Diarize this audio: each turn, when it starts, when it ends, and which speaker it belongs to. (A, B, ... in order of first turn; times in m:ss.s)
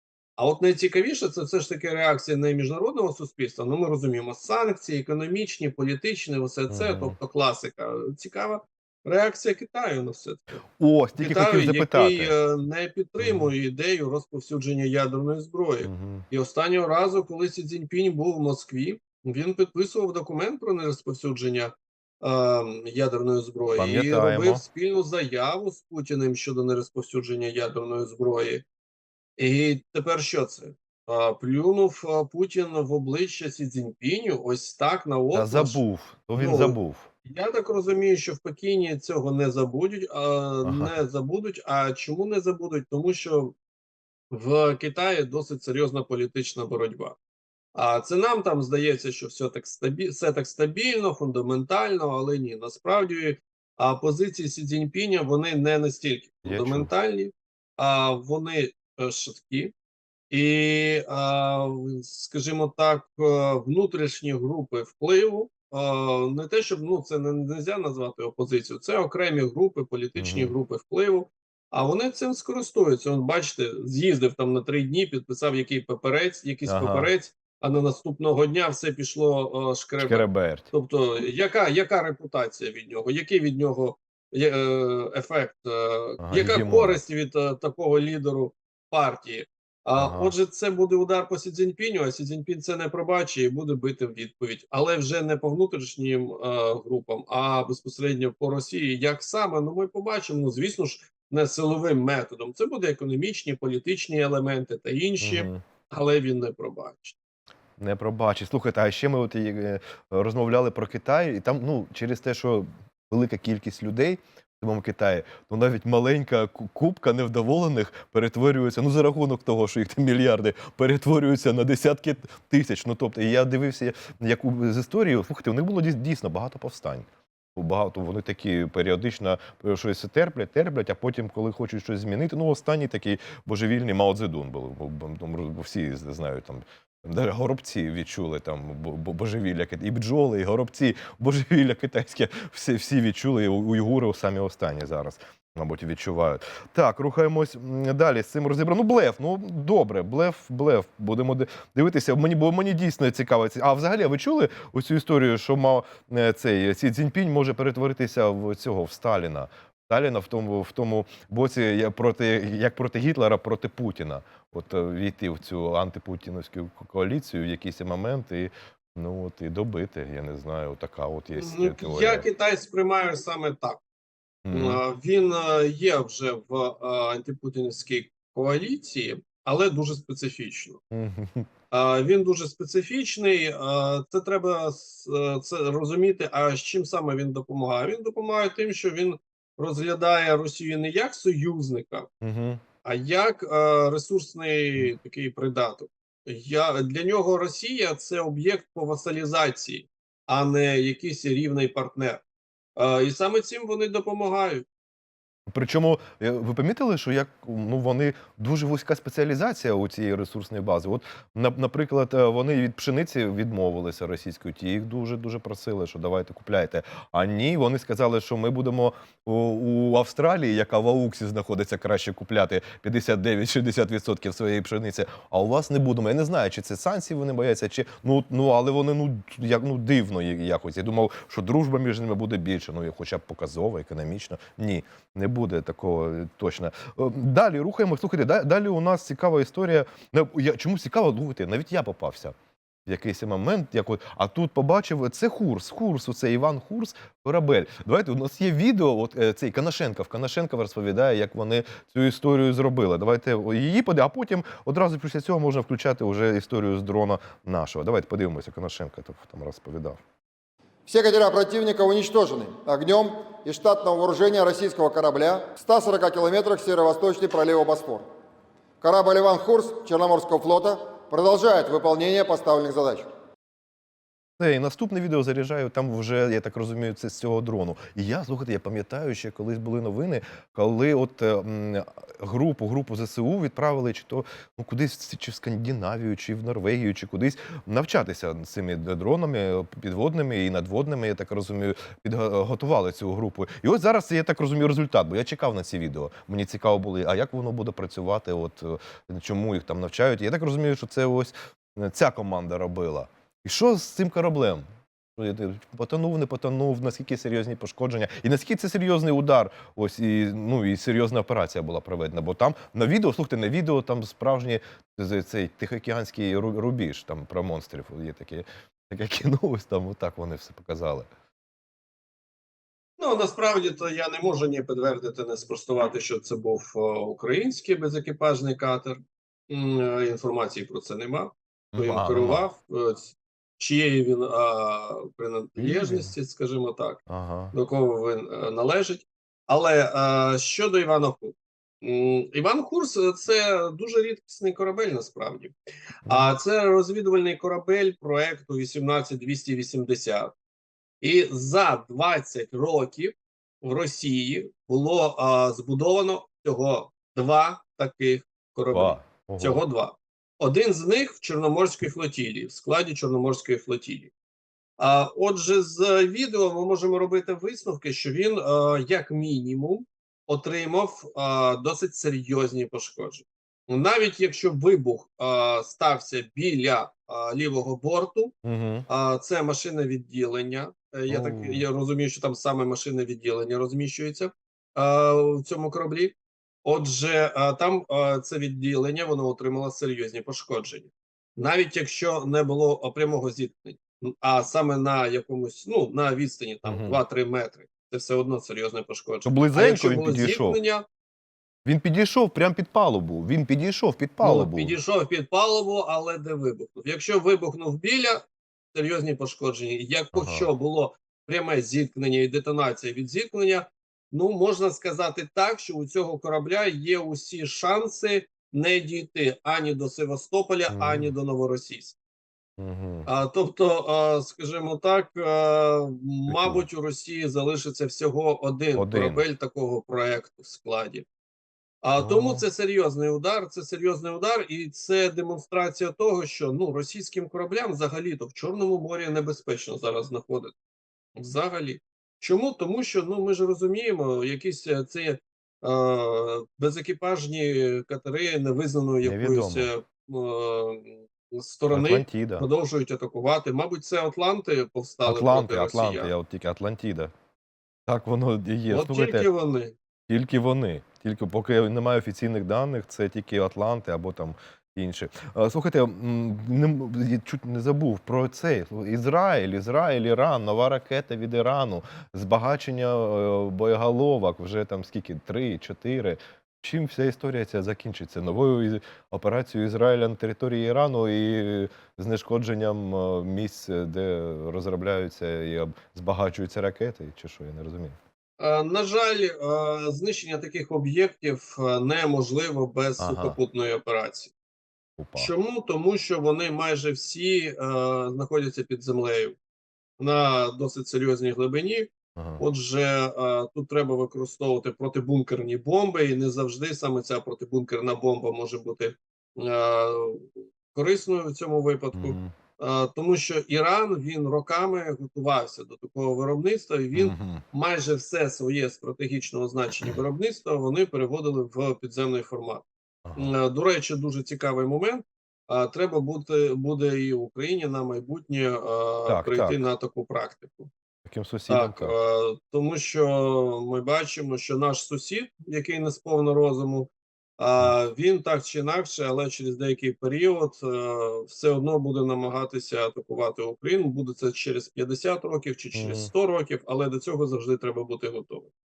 0:00.4-0:10.6 A
0:06.7-0:07.2 B
0:10.8-0:12.3 B
0:11.2-0:28.6 A
0:13.2-0:13.5 B
0:15.8-0:16.2 B
0:23.8-0:24.6 B
0:29.4-0:35.8 A
0:35.3-0:37.1 B
0:36.4-0:43.5 A
0:40.6-0:40.9 B
0:44.3-0:47.2 A
0:47.7-0:59.7 A
0:56.4-0:56.9 B
1:00.3-1:47.2 A
1:10.2-1:10.5 B
1:16.7-1:17.1 B
1:20.0-1:20.7 B
1:26.2-1:27.0 B
1:30.0-1:30.3 B
1:45.2-1:45.6 B
1:47.8-2:52.2 B
2:51.4-2:53.8 A
2:54.4-2:54.8 B
2:54.5-3:00.8 A
3:00.9-3:01.5 B
3:01.7-3:12.1 A
3:12.2-3:12.6 B
3:12.8-3:22.2 A
3:22.8-3:24.6 A
3:25.5-4:20.0 B
4:20.8-4:28.1 C
4:28.8-4:33.1 C
4:34.4-5:04.6 B
5:05.2-5:21.1 B
5:23.0-5:45.5 A
5:31.7-5:32.4 B
5:35.6-5:36.1 B
5:37.1-5:37.5 B
5:46.0-5:50.3 A
5:46.1-5:46.3 B
5:51.0-6:04.1 A
5:58.7-5:59.6 B
6:04.8-6:18.3 A
6:18.4-6:18.8 B
6:18.9-6:40.8 A
6:21.1-6:21.6 B
6:36.6-6:37.0 B
6:39.2-6:40.6 B
6:41.6-6:44.8 B
6:44.2-7:02.0 A
6:50.1-6:50.5 B
7:00.7-7:01.1 B
7:02.6-7:03.1 B
7:03.0-7:11.0 A
7:06.3-7:06.6 B
7:08.8-7:09.2 B
7:11.8-7:20.5 A
7:12.0-7:12.4 B
7:21.2-7:36.1 A
7:29.0-7:29.7 B
7:31.7-7:32.4 B
7:35.0-7:37.1 B
7:37.9-7:39.3 B
7:38.7-7:39.7 A
7:40.1-8:08.0 B
8:08.4-8:14.3 A
8:13.0-8:13.4 B
8:15.0-8:15.3 B
8:15.2-8:19.4 A
8:20.0-8:42.6 A
8:22.2-8:22.4 B
8:31.9-8:32.3 B
8:36.9-8:37.4 B
8:43.0-8:43.3 B
8:43.2-8:50.7 A
8:49.1-8:49.6 B
8:51.0-8:51.9 B
8:51.5-9:08.5 A
9:05.7-9:06.1 B